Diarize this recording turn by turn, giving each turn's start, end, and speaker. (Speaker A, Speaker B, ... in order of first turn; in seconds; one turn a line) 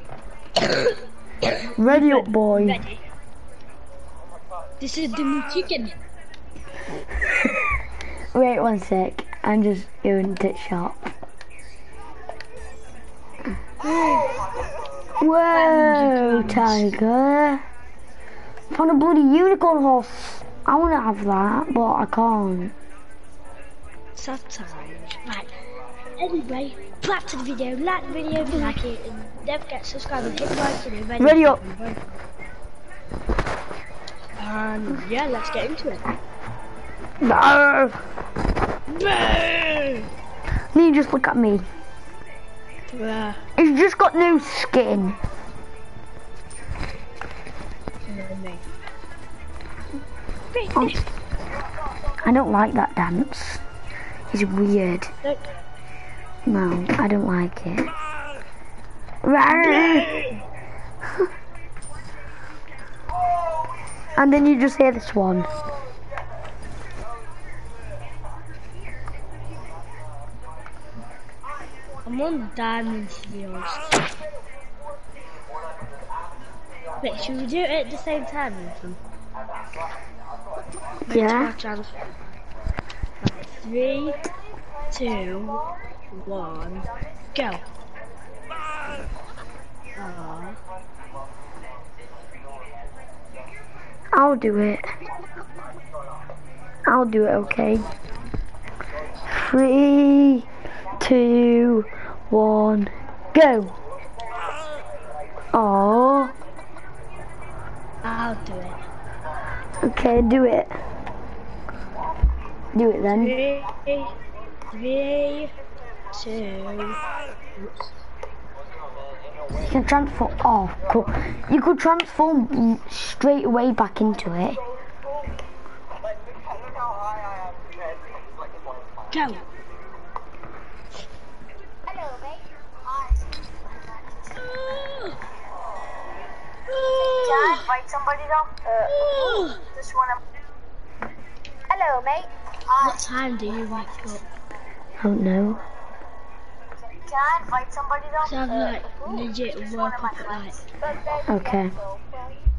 Speaker A: 1.8-2.8
Speaker B: 1.8-3.0
Speaker B: 4.8-6.0
Speaker A: 7.3-7.7
Speaker A: 8.3-11.1
Speaker A: 13.8-14.3
Speaker B: 13.8-14.3
Speaker A: 15.2-17.6
Speaker B: 15.5-16.9
Speaker A: 18.7-22.7
Speaker B: 24.2-25.5
Speaker B: 26.2-32.1
Speaker A: 31.2-31.6
Speaker B: 34.4-36.0
Speaker A: 37.2-38.0
Speaker B: 38.9-40.1
Speaker A: 40.7-41.6
Speaker B: 42.9-43.5
Speaker A: 43.6-45.2
Speaker B: 48.0-48.6
Speaker B: 50.5-51.0
Speaker A: 52.2-53.6
Speaker A: 54.3-55.1
Speaker B: 55.2-55.6
Speaker A: 56.5-57.9
Speaker A: 59.2-60.1
Speaker B: 59.5-60.4
Speaker A: 64.1-65.5
Speaker B: 72.0-73.9
Speaker B: 77.0-79.0
Speaker B: 81.0-82.1
Speaker A: 81.1-81.5
Speaker B: 83.2-84.3
Speaker B: 84.9-87.6
Speaker B: 90.0-90.6
Speaker A: 94.1-94.9
Speaker A: 96.8-97.8
Speaker A: 99.2-100.5
Speaker A: 101.0-103.7
Speaker A: 105.5-106.3
Speaker B: 108.0-108.8
Speaker A: 109.8-110.8
Speaker A: 112.7-113.4
Speaker B: 113.1-114.1
Speaker B: 114.7-115.5
Speaker B: 116.1-117.0
Speaker B: 117.5-117.9
Speaker A: 119.5-124.6
Speaker B: 129.1-129.4
Speaker C: 131.9-133.2
Speaker B: 134.4-135.2
Speaker B: 136.7-137.8
Speaker C: 137.2-140.2
Speaker B: 138.8-139.6
Speaker C: 141.7-142.3
Speaker B: 142.7-144.2
Speaker A: 145.0-145.6
Speaker C: 146.9-149.2
Speaker B: 148.2-150.6
Speaker C: 150.0-152.4
Speaker A: 151.2-151.8